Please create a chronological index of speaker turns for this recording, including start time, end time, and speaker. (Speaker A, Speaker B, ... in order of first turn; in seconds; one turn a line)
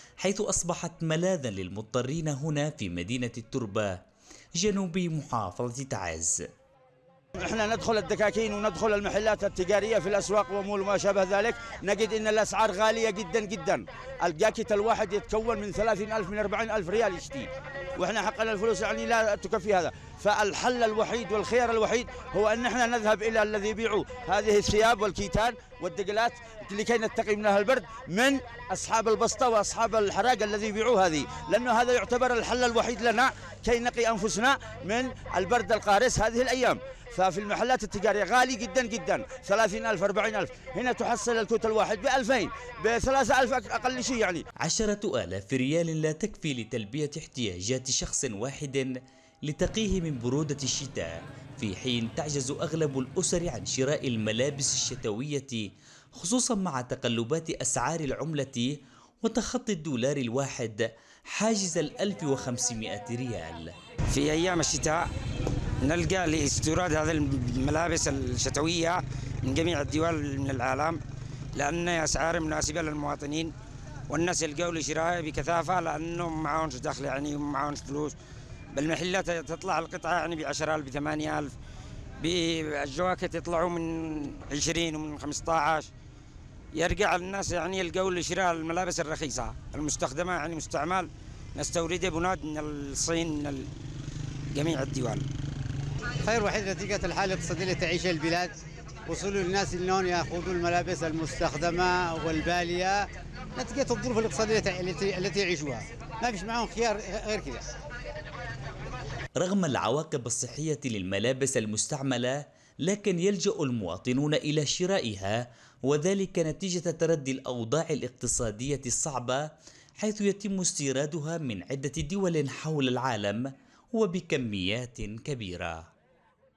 Speaker A: 0.2-4.0
Speaker A: 4.5-6.4
Speaker B: 7.4-44.5
Speaker A: 44.6-48.9
Speaker A: 49.4-63.7
Speaker C: 64.1-65.1
Speaker C: 65.8-71.0
Speaker C: 71.5-73.5
Speaker C: 74.1-78.1
Speaker C: 78.7-81.5
Speaker C: 82.2-85.9
Speaker C: 86.7-93.7
Speaker C: 94.5-95.3
Speaker D: 96.2-98.5
Speaker D: 99.1-107.7
Speaker A: 109.4-125.9